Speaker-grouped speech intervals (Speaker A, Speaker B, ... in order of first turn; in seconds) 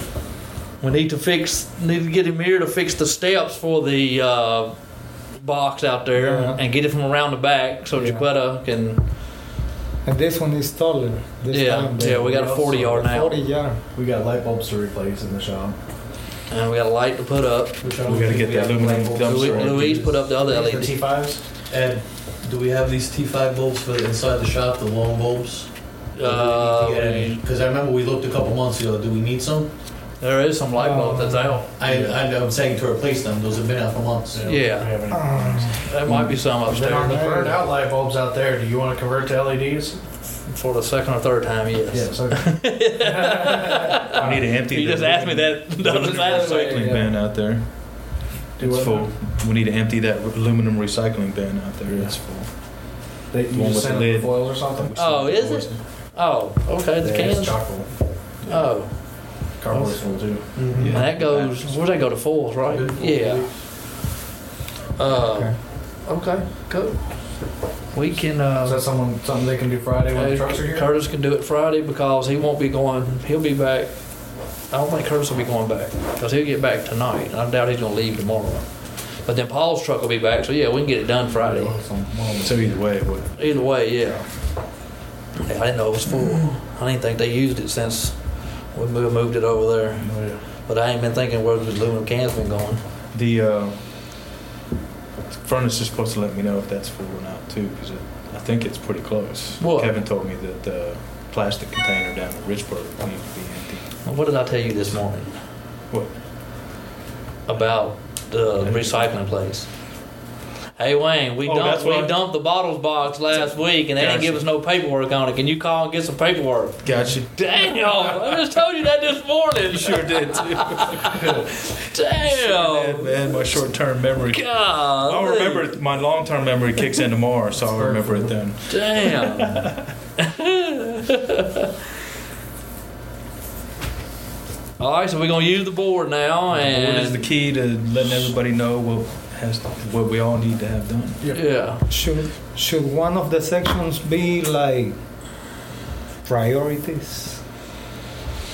Speaker A: 0.8-4.8, 5.3-9.0, 11.5-13.4, 16.5-17.8, 18.9-21.1, 26.1-27.4, 30.2-31.7, 34.4-35.0, 35.8-37.2, 40.5-47.0, 55.0-57.9, 58.4-63.5, 65.0-68.8, 70.1-81.8, 83.4-84.8, 85.4-92.8, 99.6-99.9, 104.0-105.3, 107.5-109.7, 110.8-123.3, 124.3-125.7, 128.7-131.6, 134.8-137.2, 141.3-141.8
Speaker B: 6.1-6.6, 7.9-8.3, 10.0-13.8, 30.8-31.6, 35.1-36.0, 36.9-37.6, 65.1-65.6, 141.9-145.0, 146.2-147.4
Speaker C: 12.0-13.0, 13.9-15.8, 19.6-21.4, 31.8-32.2, 34.3-40.0, 41.9-44.5, 48.6-49.1, 51.9-52.6, 53.3-55.8, 57.0-58.6, 59.4-60.7, 68.6-70.9, 81.3-82.8, 90.0-90.4, 121.1-121.5, 127.6-128.4
Speaker D: 17.8-20.2, 21.7-29.7, 31.8-34.4, 46.3-47.0, 60.6-61.0, 62.7-63.5
Speaker E: 18.0-20.1, 44.1-52.3, 53.5-55.7, 60.8-61.9, 82.4-83.3, 93.1-93.9, 95.3-103.8, 105.9-106.2, 108.6-109.1, 111.4-112.3, 113.3-114.5, 116.8-118.5, 119.7-121.2, 122.2-129.8, 136.5-141.2